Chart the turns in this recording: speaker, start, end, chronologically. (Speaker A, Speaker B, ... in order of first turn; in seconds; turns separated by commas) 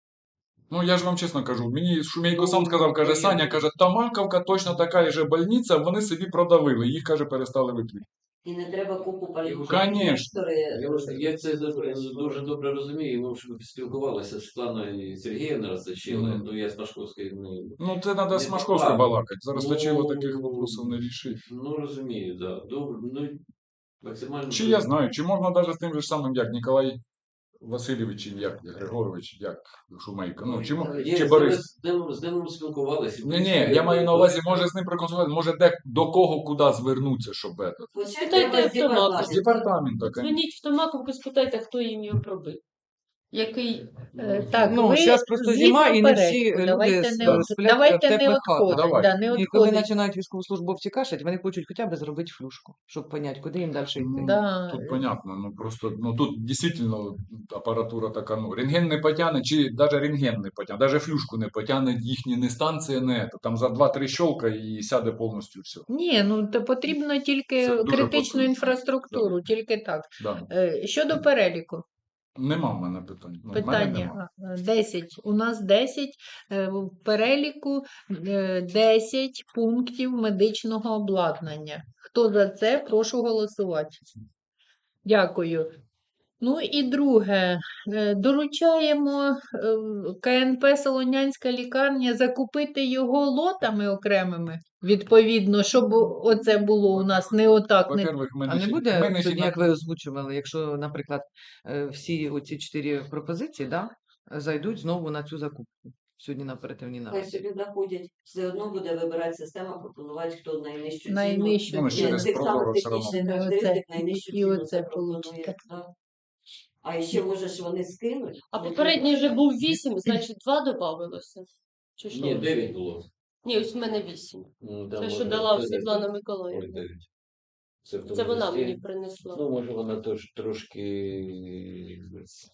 Speaker A: 0.7-8.1, Speaker B: 2.3-3.7, Speaker C: 8.4-12.4, Speaker B: 9.4-9.9, Speaker A: 9.7-10.3, Speaker B: 10.7-23.4, Speaker A: 16.1-16.4, Speaker A: 17.8-21.4, Speaker B: 24.0-24.9, Speaker A: 24.5-27.0, Speaker A: 27.6-31.7, Speaker C: 30.4-31.3, Speaker B: 31.0-34.7, Speaker A: 33.2-37.9, Speaker C: 37.9-39.7, Speaker D: 38.1-42.6, Speaker A: 39.1-40.4, Speaker D: 43.3-44.1, Speaker A: 44.2-44.8, Speaker E: 44.2-49.9, Speaker F: 44.7-54.3, Speaker A: 48.7-49.1, Speaker A: 54.0-65.9, Speaker E: 54.2-55.1, Speaker E: 65.9-71.8, Speaker A: 67.6-69.3, Speaker A: 70.2-70.5, Speaker A: 72.4-74.2, Speaker E: 73.5-84.0, Speaker E: 85.0-85.7, Speaker E: 86.4-98.1, Speaker A: 96.9-99.7, Speaker F: 98.5-107.1, Speaker C: 107.1-115.9, Speaker E: 111.1-115.6, Speaker A: 111.7-113.2, Speaker C: 116.8-119.4, Speaker D: 118.5-122.5, Speaker B: 122.1-123.1, Speaker D: 123.4-126.8, Speaker B: 124.6-127.1, Speaker B: 127.8-132.3, Speaker D: 128.1-129.4